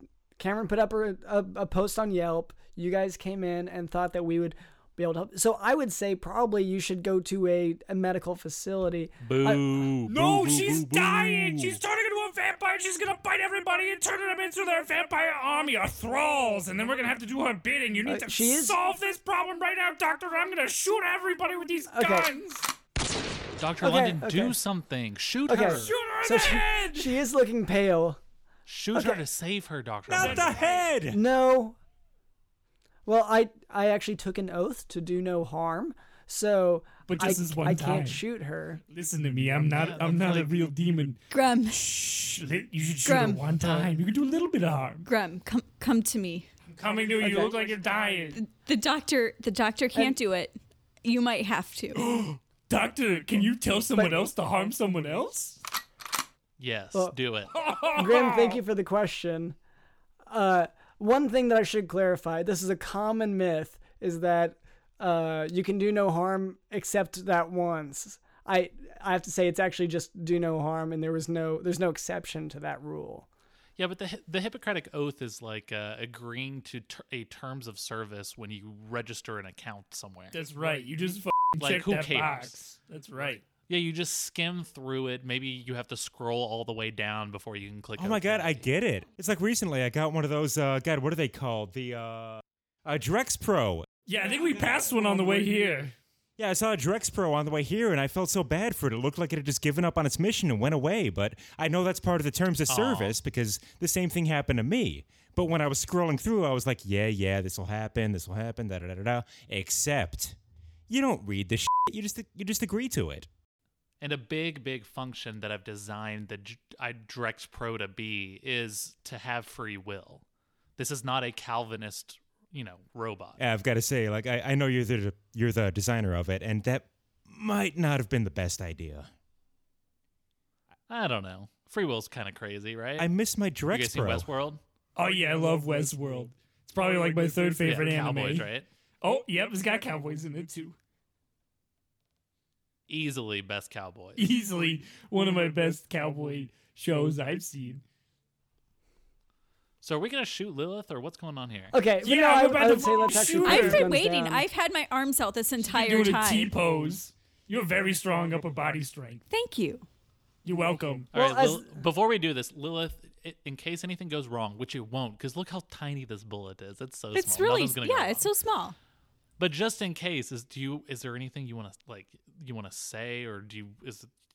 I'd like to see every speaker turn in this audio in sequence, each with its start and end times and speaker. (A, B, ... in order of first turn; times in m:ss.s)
0:00.4-0:09.6 A
0:09.2-0:11.8 B
0:10.1-0:22.7 C
0:18.0-0:18.8 A
0:21.9-0:22.3 A
0:23.6-0:25.9 B
0:23.8-0:24.6 A
0:25.5-0:28.2 A
0:25.7-0:27.2 C
0:28.6-0:30.6 B
0:28.9-0:29.2 A
0:30.1-0:31.2 D
0:30.2-0:30.8 C
0:31.1-0:31.8 A
0:33.1-0:38.8 A
0:37.1-0:38.2 C
0:38.9-0:45.0 C
0:39.8-0:40.5 B
0:41.3-0:41.8 E
0:43.0-0:43.4 E
0:43.6-0:43.9 B
0:45.0-0:46.5 E
0:46.7-0:48.4 C
0:47.2-0:47.5 A
0:48.4-0:52.0 E
0:52.0-0:55.6 C
0:53.9-0:54.3 A
0:56.6-0:57.5 B
0:57.5-0:58.6 C
0:57.9-0:59.6 A
1:00.3-1:13.3 A
1:13.8-1:20.4 B
1:20.3-1:23.4 C
1:21.6-1:22.6 B
1:23.6-1:28.6 B
1:28.0-1:33.9 D
1:34.1-1:35.9 C
1:36.4-1:50.4 D
1:42.7-1:43.2 B
1:50.9-1:53.3 D
1:54.0-2:00.2 B
2:00.8-2:03.4 B
2:03.4-2:09.1 D
2:10.9-2:13.1 B
2:13.0-2:14.3 D
2:13.7-2:14.6 B
2:15.0-2:18.5 C
2:17.6-2:18.7 B
2:19.0-2:20.8 C
2:22.9-2:24.2 B
2:24.2-2:27.8 C
2:29.8-2:31.8 B
2:31.7-2:34.5 A
2:32.0-2:33.9 C
2:33.4-2:36.5 E
2:35.6-2:39.2 C
2:39.3-2:39.9 E
2:40.4-2:41.1 C
2:41.1-2:41.7 A
2:41.1-2:48.3 B
2:47.1-2:48.8 E
2:49.4-2:54.1 B